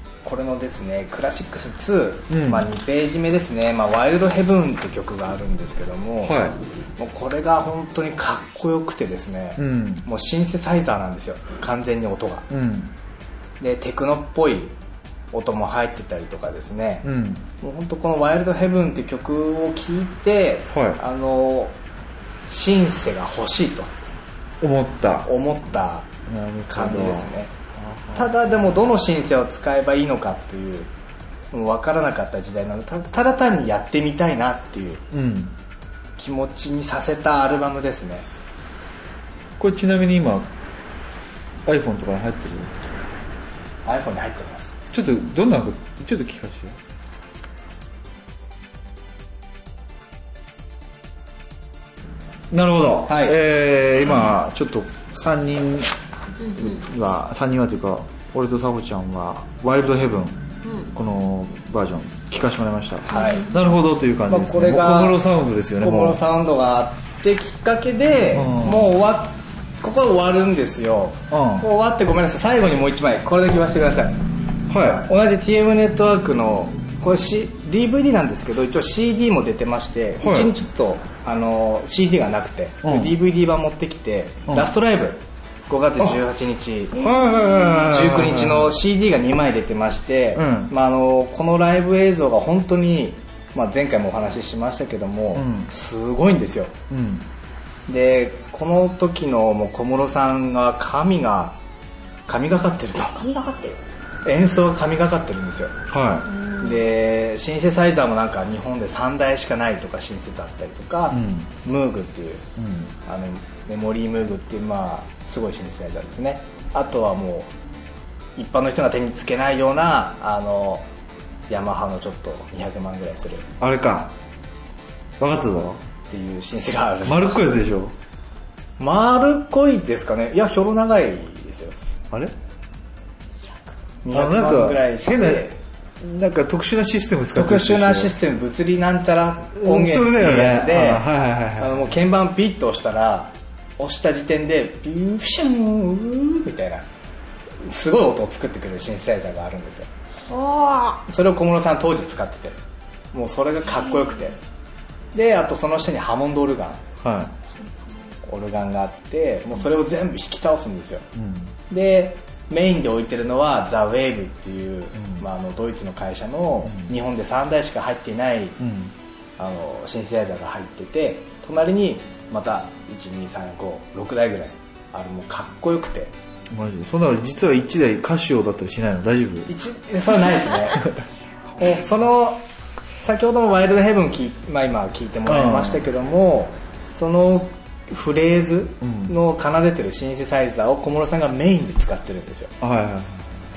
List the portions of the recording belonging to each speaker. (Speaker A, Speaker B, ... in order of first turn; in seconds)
Speaker A: 0.2-6.5, 7.0-12.5, 13.6-14.7, 15.3-17.1, 17.6-21.7, 22.5-23.9, 25.2-26.1, 26.7-27.5, 28.1-30.9, 31.5-35.0, 36.2-38.2, 43.8-44.8, 53.1-53.4, 63.1-63.5, 64.3-65.2, 65.8-74.2, 75.0-96.7, 97.9-101.6, 102.3-103.2, 104.2-105.7, 106.6-112.5, 113.0-117.5, 118.3-120.8, 121.5-123.5, 126.1-127.4, 128.8-131.7, 134.0-135.5, 137.3-141.1, 141.6-146.8, 147.7-149.9, 151.1-152.6, 153.1-154.4, 155.1-156.8, 158.2-161.0, 161.7-168.6, 169.4-176.1, 179.5-180.9, 181.6-182.4, 183.0-192.5
Speaker B: 2.3-2.7, 6.2-6.6, 9.6-10.1, 12.5-12.9, 17.0-17.5, 20.7-21.0, 24.6-25.3, 26.3-28.3, 35.1-35.5, 39.6-40.5, 41.6-42.7, 44.9-46.8, 52.5-55.9, 56.6-60.4, 60.9-66.2, 68.3-68.9, 71.3-71.7, 74.7-75.1, 80.2-80.5, 82.8-83.1, 87.0-88.8, 90.3-90.7, 95.3-95.7, 96.9-97.3, 105.9-106.3, 111.1-111.5, 112.6-112.9, 123.6-124.1, 125.2-125.8, 127.0-127.9, 134.1-138.1, 139.6-141.9, 157.0-157.3, 161.1-161.5, 164.9-165.2, 166.6-166.9, 168.6-168.9, 176.5-179.5, 185.2-185.8, 188.8-189.1, 192.6-193.3
Speaker C: 56.4-56.8, 60.6-60.9, 63.1-63.5, 87.0-87.4, 103.1-103.8, 106.2-106.8, 150.2-151.0, 153.8-154.1